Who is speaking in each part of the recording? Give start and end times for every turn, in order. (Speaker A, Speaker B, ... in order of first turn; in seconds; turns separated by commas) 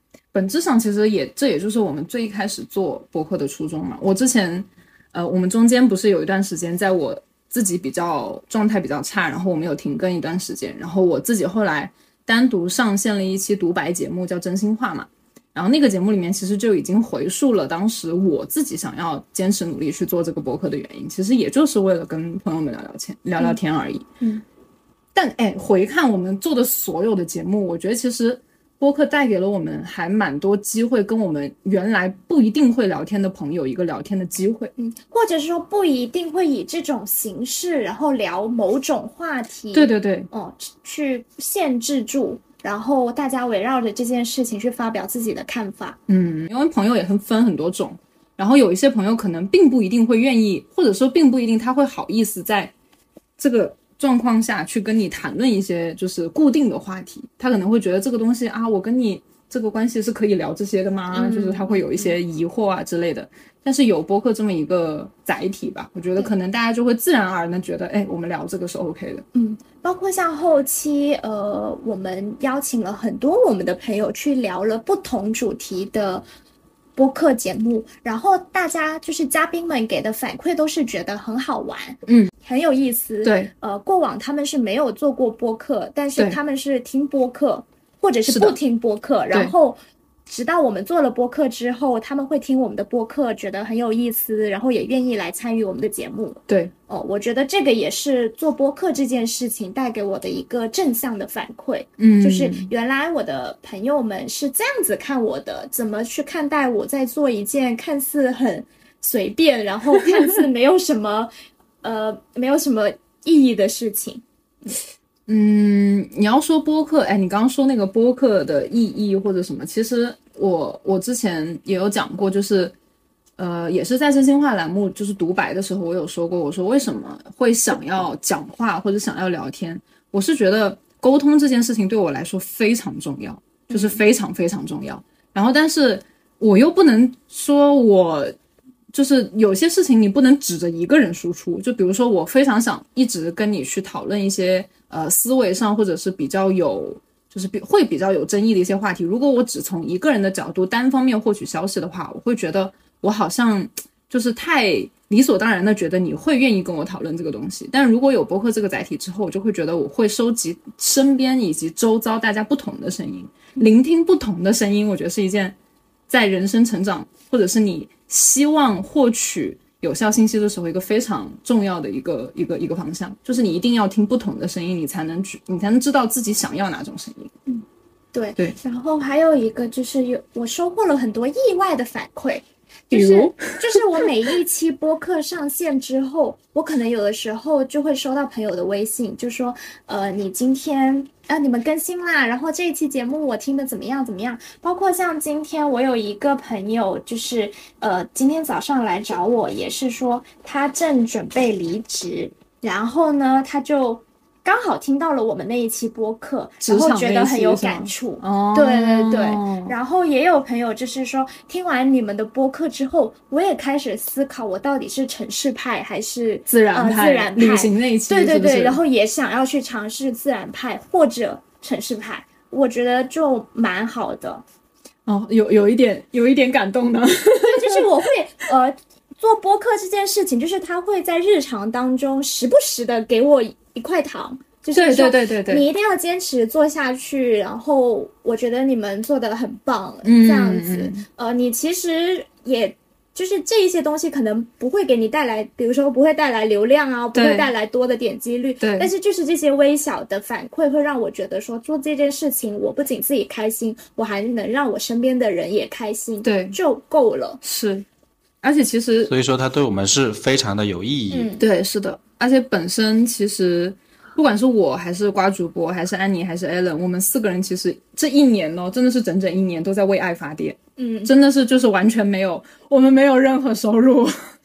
Speaker A: 0.3-24.1, Speaker A: 25.1-34.7, Speaker B: 34.8-46.0, Speaker A: 39.7-40.3, Speaker A: 46.1-52.7, Speaker A: 53.4-69.2, Speaker B: 61.1-62.2, Speaker B: 69.3-76.2, Speaker B: 77.0-111.3, Speaker A: 82.0-82.3, Speaker A: 83.2-83.5, Speaker A: 88.3-88.6, Speaker A: 102.0-102.7, Speaker B: 111.8-114.7, Speaker A: 115.3-122.7, Speaker A: 123.4-138.3, Speaker B: 133.7-134.0, Speaker A: 138.9-165.6, Speaker A: 166.1-177.3, Speaker B: 177.5-224.4, Speaker A: 182.9-184.0, Speaker A: 206.6-209.8, Speaker A: 216.5-218.8, Speaker A: 225.1-227.8, Speaker B: 227.4-257.4, Speaker A: 234.7-235.7, Speaker A: 240.0-241.0, Speaker A: 247.1-247.5, Speaker A: 248.6-248.9, Speaker A: 256.2-256.6, Speaker A: 257.4-257.9, Speaker A: 258.4-259.1, Speaker C: 259.1-261.3, Speaker B: 261.1-261.4, Speaker A: 261.4-274.1, Speaker B: 270.8-271.1